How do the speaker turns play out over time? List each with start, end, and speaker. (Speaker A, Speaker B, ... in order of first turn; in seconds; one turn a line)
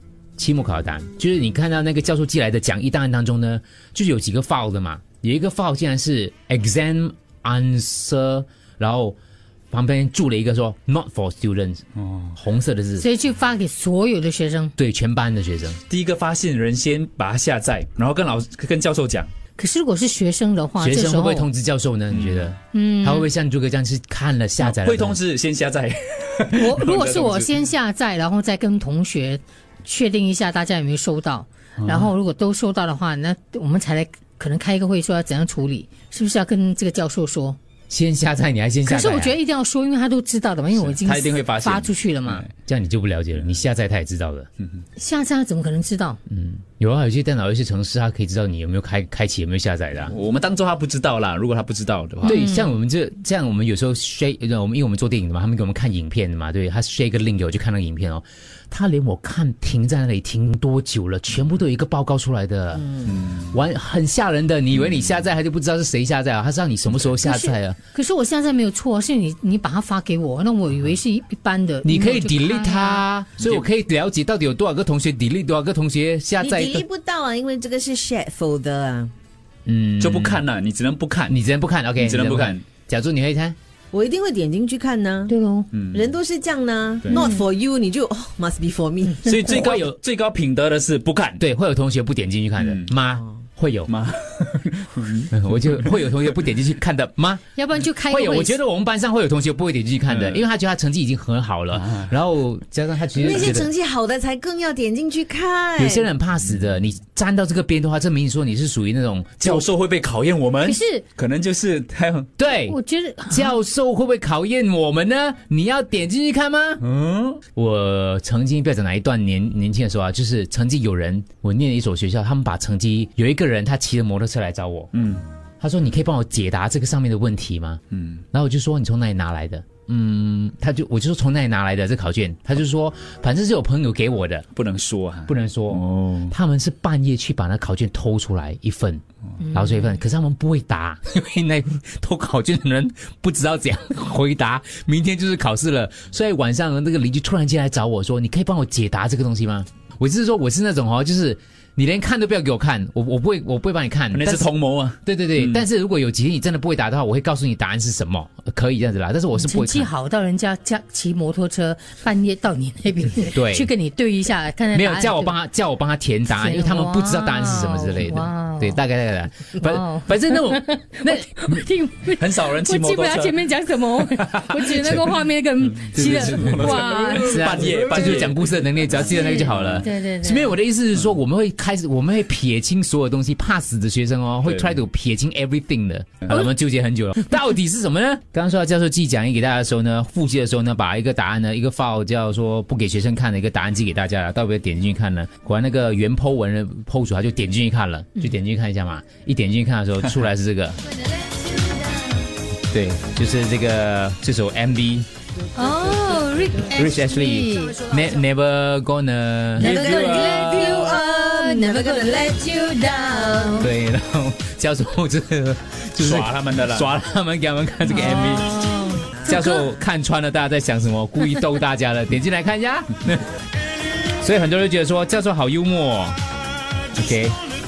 Speaker A: 0.4-9.2
Speaker A: 9.7-13.1
Speaker B: 13.0-14.7
Speaker A: 14.8-15.8
Speaker C: 15.9-19.3
Speaker B: 19.6-21.5
Speaker A: 20.8-25.2
Speaker C: 22.1-22.5
Speaker B: 22.7-23.3
Speaker C: 24.6-27.5
Speaker B: 26.5-37.6
Speaker C: 31.8-32.1
Speaker A: 37.9-39.4
Speaker B: 38.8-42.5
Speaker C: 40.7-42.5
Speaker A: 42.5-44.5
Speaker B: 45.0-46.2
Speaker A: 46.3-50.1
Speaker C: 50.1-52.3
Speaker A: 52.2-67.8
Speaker B: 52.2-52.7
Speaker B: 67.2-73.0
Speaker A: 71.8-76.8
Speaker C: 73.4-73.6
Speaker D: 76.4-79.1
Speaker A: 79.7-80.4
Speaker C: 80.0-81.4
Speaker A: 81.3-83.5
Speaker C: 82.0-82.6
Speaker D: 83.9-85.3
Speaker B: 85.3-85.7
Speaker C: 85.7-86.1
Speaker D: 85.9-89.4
Speaker B: 87.1-87.4
Speaker C: 89.2-91.4
Speaker A: 91.4-93.9
Speaker C: 92.6-92.9
Speaker C: 93.9-96.0
Speaker A: 95.3-97.4
Speaker B: 97.5-98.6
Speaker A: 98.0-103.7
Speaker C: 100.1-100.4
Speaker D: 103.1-106.1
Speaker A: 105.8-109.7
Speaker C: 109.4-112.3
Speaker B: 110.6-111.0
Speaker A: 112.4-112.8
Speaker B: 112.6-113.5
Speaker A: 113.3-116.8
Speaker C: 116.8-117.4
Speaker A: 117.5-124.9
Speaker C: 124.9-125.2
Speaker A: 125.6-134.5
Speaker C: 127.9-128.2
Speaker C: 134.5-136.3
Speaker A: 135.3-154.5
Speaker B: 139.4-139.9
Speaker C: 154.1-155.6
Speaker A: 155.0-159.9
Speaker B: 159.3-165.3
Speaker A: 163.3-163.7
Speaker A: 164.7-171.6
Speaker B: 166.3-168.8
Speaker B: 169.6-178.1
Speaker C: 172.2-175.0
Speaker C: 175.7-179.8
Speaker A: 176.0-200.8
Speaker B: 178.9-180.5
Speaker C: 184.4-184.8
Speaker B: 201.5-202.0
Speaker A: 202.7-205.1
Speaker B: 205.5-207.9
Speaker A: 206.7-209.8
Speaker C: 209.6-210.8
Speaker D: 209.6-213.7
Speaker B: 209.6-213.6
Speaker A: 213.6-218.5
Speaker C: 216.0-216.9
Speaker B: 217.8-219.6
Speaker D: 218.3-218.7
Speaker A: 219.2-223.3
Speaker A: 224.2-226.2
Speaker A: 227.0-227.3